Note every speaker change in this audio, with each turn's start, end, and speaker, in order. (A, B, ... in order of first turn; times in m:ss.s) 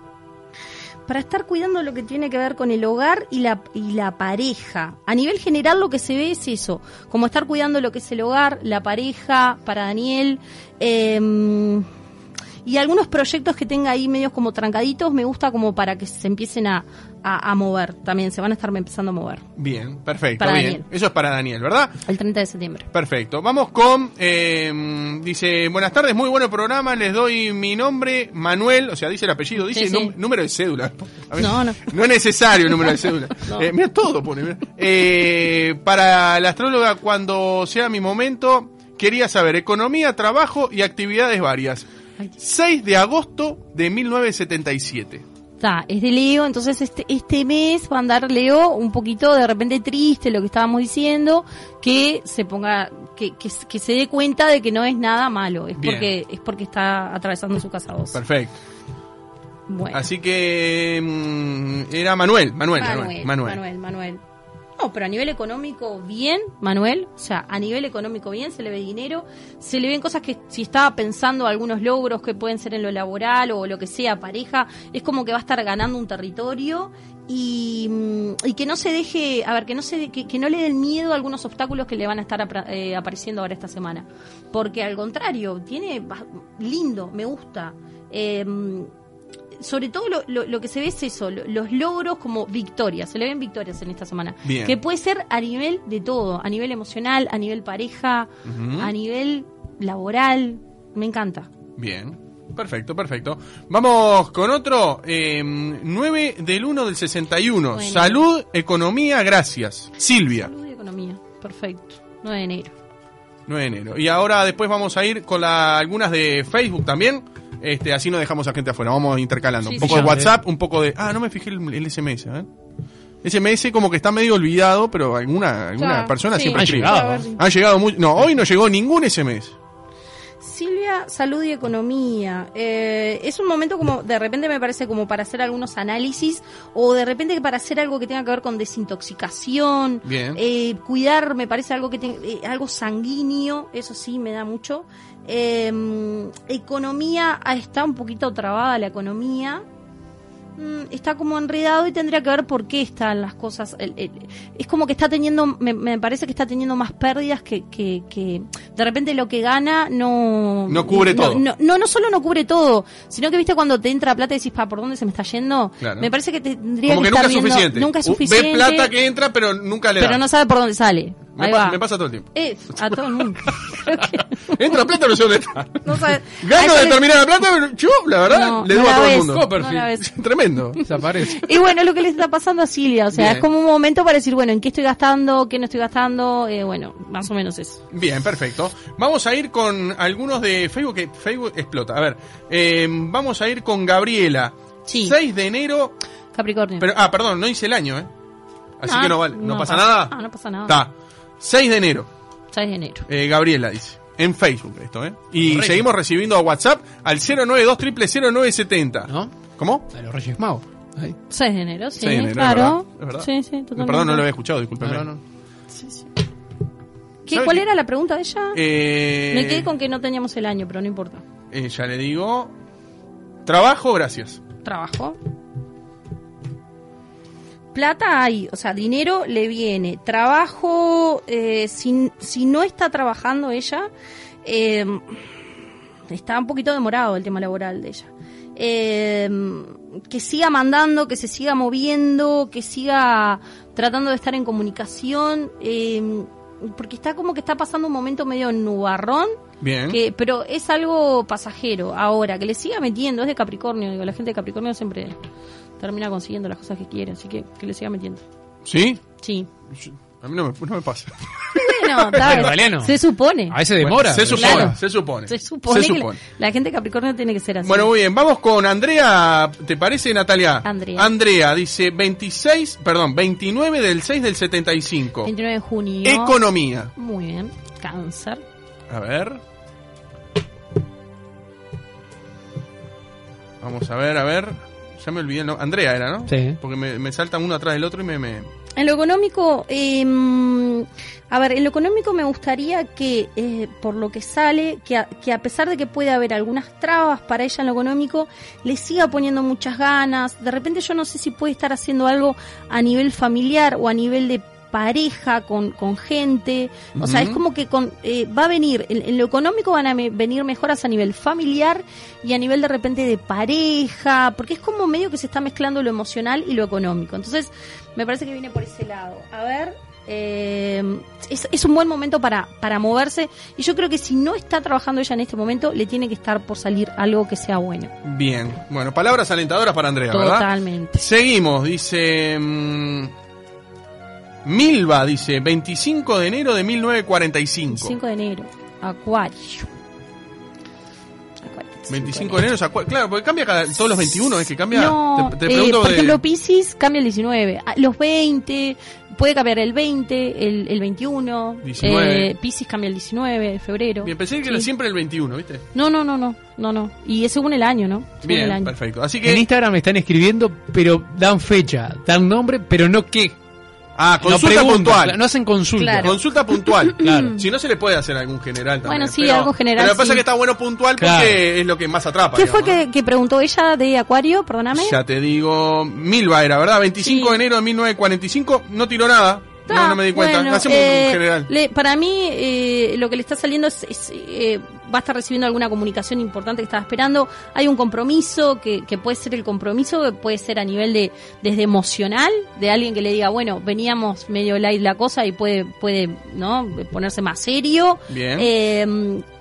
0:01.1-0:11.9 A
0:12.6-0:19.4 A
0:19.6-0:22.0 B
0:20.4-0:20.8 A
0:22.0-0:22.9 A
0:22.9-0:41.9 B
0:29.6-0:30.1 A
0:31.4-0:31.8 A
0:33.4-0:33.7 A
0:42.4-0:45.2 B
0:45.6-0:58.2 A
0:55.8-0:56.1 B
0:58.1-0:58.6 B
0:59.7-1:00.0 A
0:59.9-1:03.6 B
1:02.8-1:04.2 A
1:04.8-1:28.9 A
1:29.6-1:41.5 A
1:34.4-1:34.8 B
1:38.5-1:38.9 B
1:41.8-1:50.5 B
1:47.7-1:48.2 A
1:50.3-1:52.7 A
1:53.5-2:02.5 B
1:59.6-2:00.1 A
1:59.8-2:00.3 C
2:03.2-2:09.5 B
2:05.8-2:07.4 A
2:06.5-2:07.3 C
2:10.4-2:29.6 A
2:20.0-2:20.4 B
2:30.6-2:48.9 A
2:40.7-2:41.4 B
2:45.8-2:46.1 B
2:46.9-2:50.2 B
2:50.0-2:51.8 A
2:51.4-3:00.8 B
2:52.3-2:54.6 A
2:55.8-2:57.1 A
2:58.3-3:00.1 A
2:59.5-2:59.8 C
3:00.8-3:07.8 A
3:00.8-3:01.5 C
3:03.1-3:03.4 B
3:07.9-3:15.9 B
3:14.9-3:15.1 A
3:16.3-3:16.9 A
3:16.8-3:18.1 B
3:18.8-3:20.1 B
3:18.8-3:20.8 A
3:20.7-3:22.1 B
3:22.5-3:23.1 A
3:23.1-3:29.9 B
3:25.4-3:25.9 C
3:29.1-3:29.3 C
3:29.9-3:31.2 C
3:31.3-3:34.2 A
3:32.0-3:35.1 B
3:34.8-3:35.2 C
3:35.7-3:36.0 A
3:37.2-3:38.6 A
3:37.3-3:37.6 B
3:38.5-3:39.7 B
3:39.3-3:41.2 A
3:41.5-3:42.5 B
3:43.5-3:44.4 B
3:44.6-3:45.2 A
3:47.7-3:53.9 A
3:54.4-3:55.2 A
3:56.1-4:09.4 A
4:09.6-4:10.0 B
4:09.9-4:15.2 A
4:15.8-4:18.2 A
4:18.6-4:19.0 B
4:19.2-4:19.5 A
4:19.7-4:22.5 B
4:21.5-4:23.6 A
4:22.2-4:23.0 C
4:23.5-4:24.8 C
4:23.8-4:26.2 B
4:24.3-4:27.9 A
4:27.6-4:35.3 B
4:30.6-4:31.1 A
4:35.2-4:36.4 A
4:36.0-4:36.9 B
4:37.0-4:38.4 A
4:38.9-4:39.4 B
4:43.6-4:48.5 B
4:46.3-4:46.6 C
4:48.8-5:27.9 A
5:07.0-5:07.4 B
5:28.0-5:33.1 B
5:30.1-5:31.0 A
5:34.4-5:38.0 B
5:37.7-5:39.7 A
5:41.4-5:42.4 A
5:41.9-5:46.2 B
5:44.7-5:54.7 A
5:51.6-5:52.3 B
5:54.0-5:55.6 B
5:55.7-5:58.7 A
5:58.2-5:59.4 B
5:59.2-6:03.4 C
6:04.0-6:05.2 B
6:04.2-6:06.1 C
6:05.8-6:07.4 A
6:05.9-6:12.8 B
6:06.9-6:07.4 C
6:08.8-6:10.2 A
6:11.0-6:11.4 C
6:12.3-6:15.0 A
6:14.7-6:21.5 B
6:17.0-6:17.4 A
6:19.7-6:39.2 A
6:38.1-6:38.5 B